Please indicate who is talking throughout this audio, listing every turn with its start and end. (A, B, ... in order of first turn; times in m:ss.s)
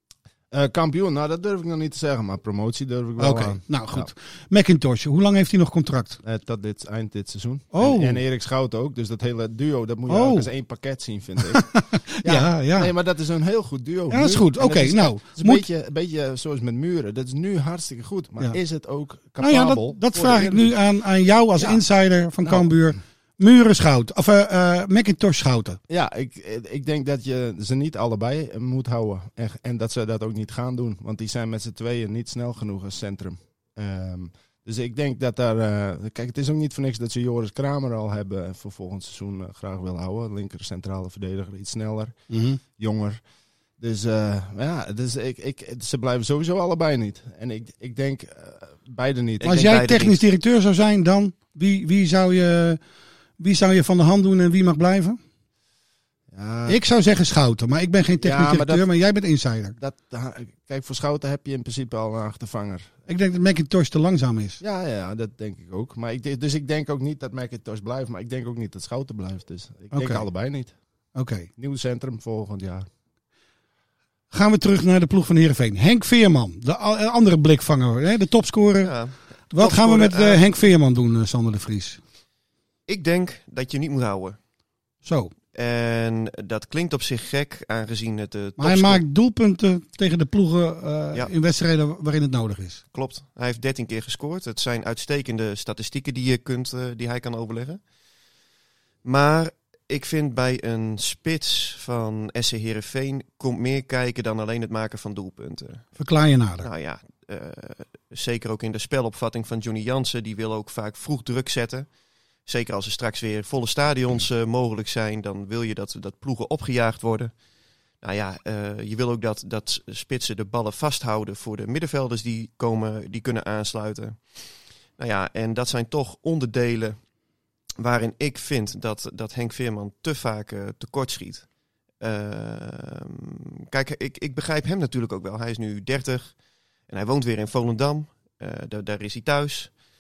0:00.5-0:04.1 A
0:03.2-0:06.2 B
0:06.2-0:11.7 A
0:07.7-0:08.2 B
0:10.1-0:10.5 B
0:11.5-0:12.9 B
0:12.2-0:20.7 A
0:14.1-0:15.6 B
0:19.4-0:25.8 B
0:21.6-0:21.8 A
0:22.4-0:23.0 A
0:25.9-0:42.2 A
0:42.3-0:42.6 B
0:42.8-0:43.2 A
0:43.8-0:49.5 A
0:49.4-0:50.2 C
0:49.4-0:52.8 B
0:53.4-0:55.2 B
0:56.3-0:56.8 A
0:56.7-0:59.8 B
0:58.2-0:58.9 A
0:59.8-1:03.0 A
1:03.1-1:04.6 B
1:04.6-1:10.8 A
1:09.9-1:10.3 B
1:11.2-1:11.5 B
1:11.6-1:12.9 A
1:14.3-1:19.0 B
1:18.8-1:20.5 C
1:19.5-1:22.0 B
1:22.9-1:24.4 C
1:25.0-1:25.3 B
1:25.5-1:29.0 C
1:28.6-1:32.8 B
1:32.9-1:37.8 C
1:39.0-1:45.9 C
1:46.0-1:46.7 B
1:46.6-1:51.9 C
1:52.5-1:57.3 C
1:58.0-2:04.2 C
2:05.0-2:07.0 C
2:07.8-2:11.5 C
2:12.0-2:16.4 C
2:16.9-2:19.7 C